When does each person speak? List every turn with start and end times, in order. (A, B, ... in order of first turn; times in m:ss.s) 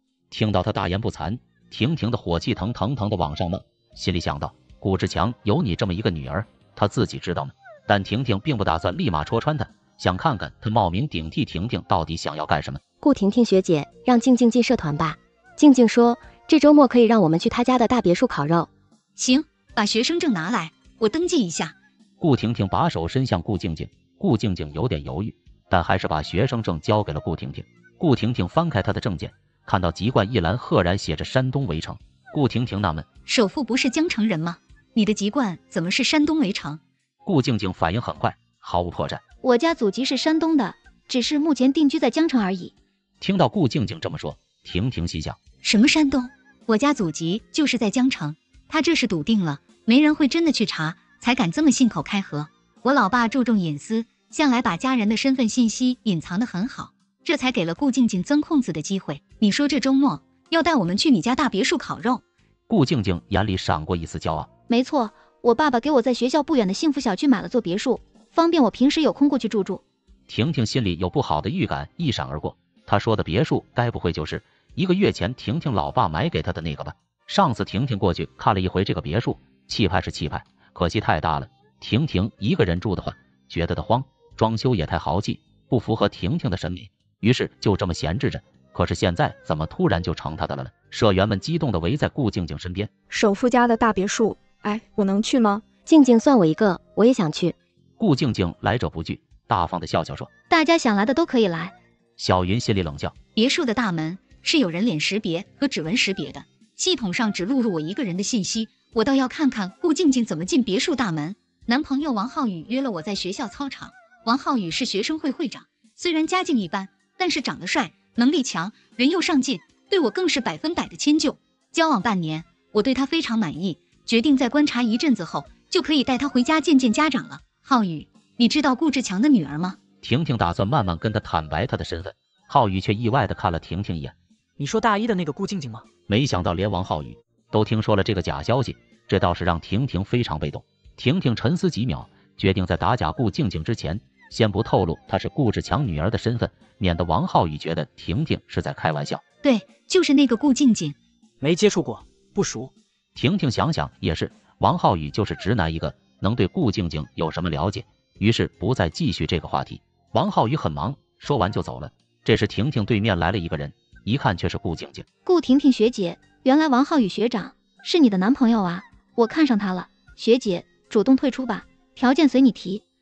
0:00.3-0:12.8 A
0:13.0-0:18.7 B
0:19.2-0:21.8 C
0:22.2-0:33.1 A
0:33.3-0:36.8 C
0:37.2-0:39.2 A
0:39.4-0:42.7 D
0:43.2-0:45.4 A
0:45.6-1:02.2 C
1:02.7-1:04.5 A
1:04.7-1:09.8 D
1:10.3-1:32.9 A
1:33.1-1:35.6 E
1:35.9-1:37.6 B
1:38.0-1:40.3 A
1:40.5-1:41.8 D
1:42.2-1:43.2 A
1:43.4-2:09.8 C
2:10.0-2:14.2 A
2:14.6-2:15.8 F
2:16.1-2:29.2 A
2:29.4-2:31.0 C
2:31.4-2:32.7 F
2:33.2-2:45.0 A
2:45.3-2:52.8 D